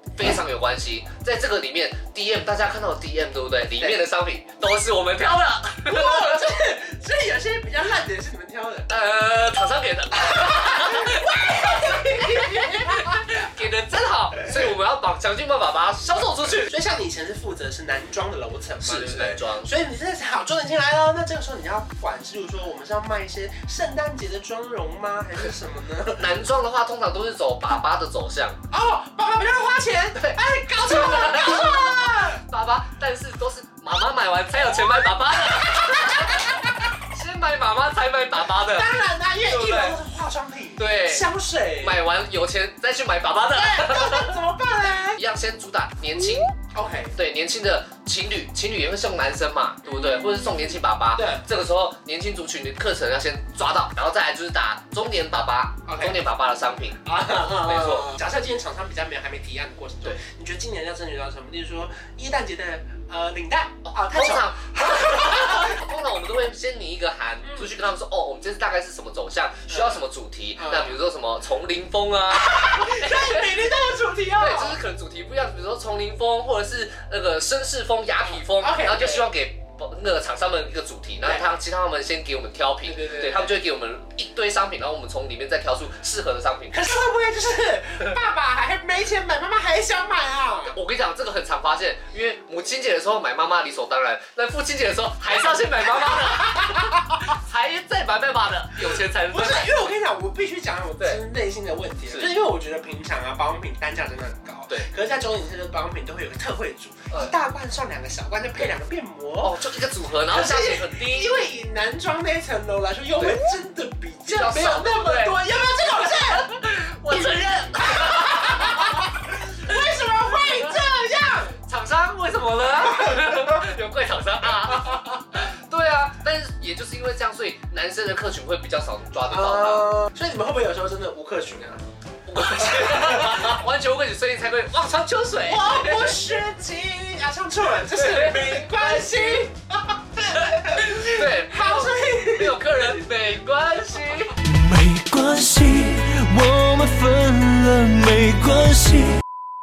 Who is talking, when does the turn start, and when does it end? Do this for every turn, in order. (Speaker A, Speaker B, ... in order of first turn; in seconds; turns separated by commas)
Speaker A: 0.1-6.5, Speaker B: 5.8-9.0, Speaker A: 8.9-16.7, Speaker B: 10.2-13.2, Speaker B: 16.6-26.3, Speaker A: 18.8-19.7, Speaker A: 26.2-28.6, Speaker B: 28.7-32.4, Speaker A: 30.2-40.0, Speaker B: 35.7-36.5, Speaker B: 38.5-42.0, Speaker A: 40.8-41.3, Speaker A: 41.8-44.4, Speaker B: 43.5-45.2, Speaker A: 45.2-46.6, Speaker B: 46.7-47.2, Speaker A: 47.2-58.1, Speaker B: 49.9-50.2, Speaker B: 51.1-51.4, Speaker B: 55.9-56.2, Speaker B: 57.1-65.8, Speaker A: 63.9-73.7, Speaker B: 69.7-70.0, Speaker B: 70.6-71.0, Speaker B: 72.3-74.8, Speaker A: 74.4-87.0, Speaker B: 78.2-79.3, Speaker B: 81.2-81.5, Speaker B: 82.8-83.5, Speaker B: 86.7-90.8, Speaker A: 90.7-99.8, Speaker B: 96.1-97.2, Speaker B: 99.3-109.6, Speaker A: 109.4-111.4, Speaker B: 110.3-116.6, Speaker A: 114.3-119.1, Speaker B: 117.8-121.5, Speaker A: 121.6-129.9, Speaker B: 129.3-131.8, Speaker A: 132.3-136.4, Speaker B: 132.6-133.6, Speaker B: 135.5-143.0, Speaker A: 137.7-139.5, Speaker A: 140.3-144.4, Speaker C: 144.5-149.2, Speaker B: 144.6-145.9, Speaker B: 146.8-147.4